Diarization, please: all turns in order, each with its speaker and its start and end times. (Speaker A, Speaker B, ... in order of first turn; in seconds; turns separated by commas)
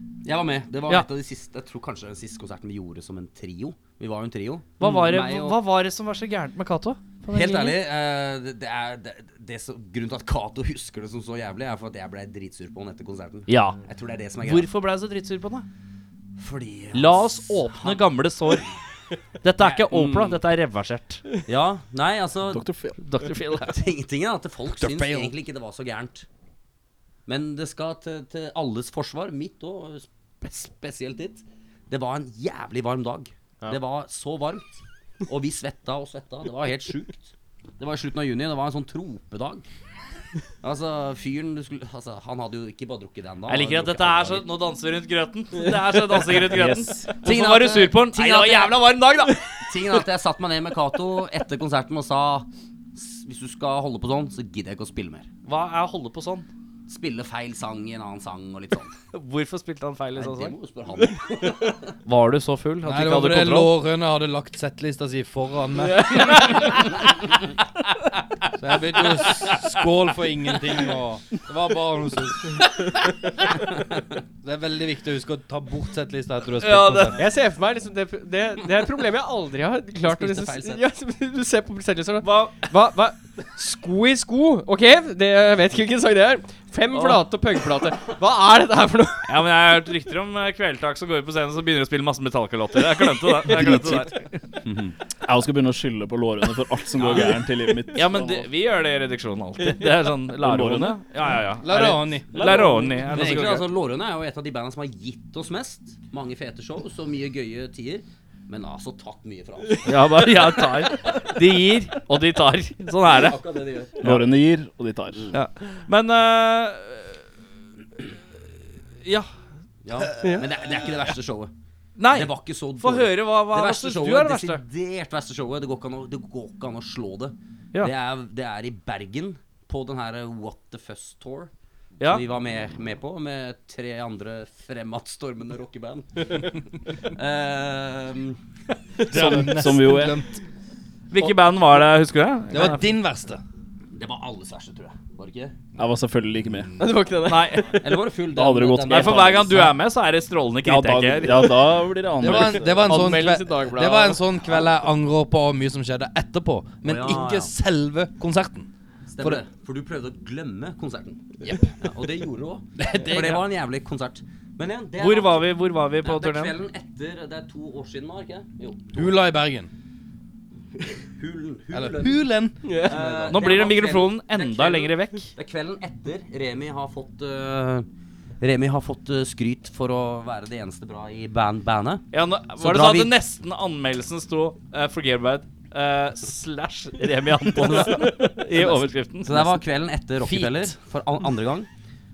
Speaker A: 0.2-5.6, Speaker B: 4.8-7.8, Speaker A: 7.3-14.7, Speaker B: 13.5-13.8, Speaker B: 14.4-15.7, Speaker A: 16.4-18.6, Speaker B: 16.9-18.7, Speaker B: 19.4-21.2, Speaker A: 19.6-20.4, Speaker A: 21.4-22.6, Speaker C: 22.5-23.0, Speaker B: 23.0-23.8, Speaker A: 23.6-26.2, Speaker D: 24.7-25.3, Speaker A: 27.3-34.7, Speaker A: 35.2-39.6, Speaker A: 40.6-44.5, Speaker B: 43.5-49.6, Speaker C: 46.5-47.1, Speaker A: 47.2-55.3, Speaker B: 55.5-56.5, Speaker A: 56.9-58.9, Speaker B: 59.1-60.5, Speaker A: 60.1-62.0, Speaker B: 62.0-63.7, Speaker D: 62.8-66.9, Speaker E: 66.0-66.6, Speaker D: 68.6-72.7, Speaker D: 74.4-77.2, Speaker B: 76.6-77.2, Speaker E: 77.1-89.3, Speaker A: 80.0-80.8, Speaker B: 82.2-82.7, Speaker B: 86.9-87.2, Speaker B: 89.3-94.4, Speaker C: 93.5-94.1, Speaker A: 94.6-95.0, Speaker C: 95.2-98.5, Speaker B: 97.9-103.7, Speaker C: 100.4-101.0, Speaker D: 101.6-102.3, Speaker C: 102.4-103.3, Speaker A: 103.1-111.2, Speaker B: 109.8-113.4, Speaker A: 113.0-114.1, Speaker C: 114.0-115.3, Speaker B: 115.3-117.2, Speaker B: 119.0-119.3, Speaker A: 119.8-121.5, Speaker E: 120.2-120.5, Speaker B: 122.0-124.6, Speaker A: 122.1-138.4, Speaker C: 139.1-140.2, Speaker D: 139.1-140.4, Speaker B: 141.1-142.9, Speaker D: 142.5-143.4, Speaker A: 143.9-145.6, Speaker C: 145.8-146.7, Speaker E: 146.8-147.8, Speaker B: 147.2-147.8, Speaker A: 147.8-149.7, Speaker C: 148.3-149.7, Speaker B: 148.9-151.8, Speaker C: 150.6-153.0, Speaker D: 152.2-159.4, Speaker E: 152.2-154.6, Speaker A: 156.8-157.5, Speaker A: 159.1-169.2, Speaker D: 161.4-161.7, Speaker D: 162.8-163.5, Speaker B: 165.0-166.6, Speaker D: 168.9-169.7, Speaker A: 170.8-172.2, Speaker D: 171.7-173.4, Speaker E: 172.6-173.0, Speaker A: 172.8-177.8, Speaker B: 173.3-175.3, Speaker A: 178.4-182.1, Speaker B: 182.1-189.5, Speaker A: 182.6-183.1, Speaker A: 187.6-188.3, Speaker A: 189.2-191.7, Speaker D: 190.2-190.7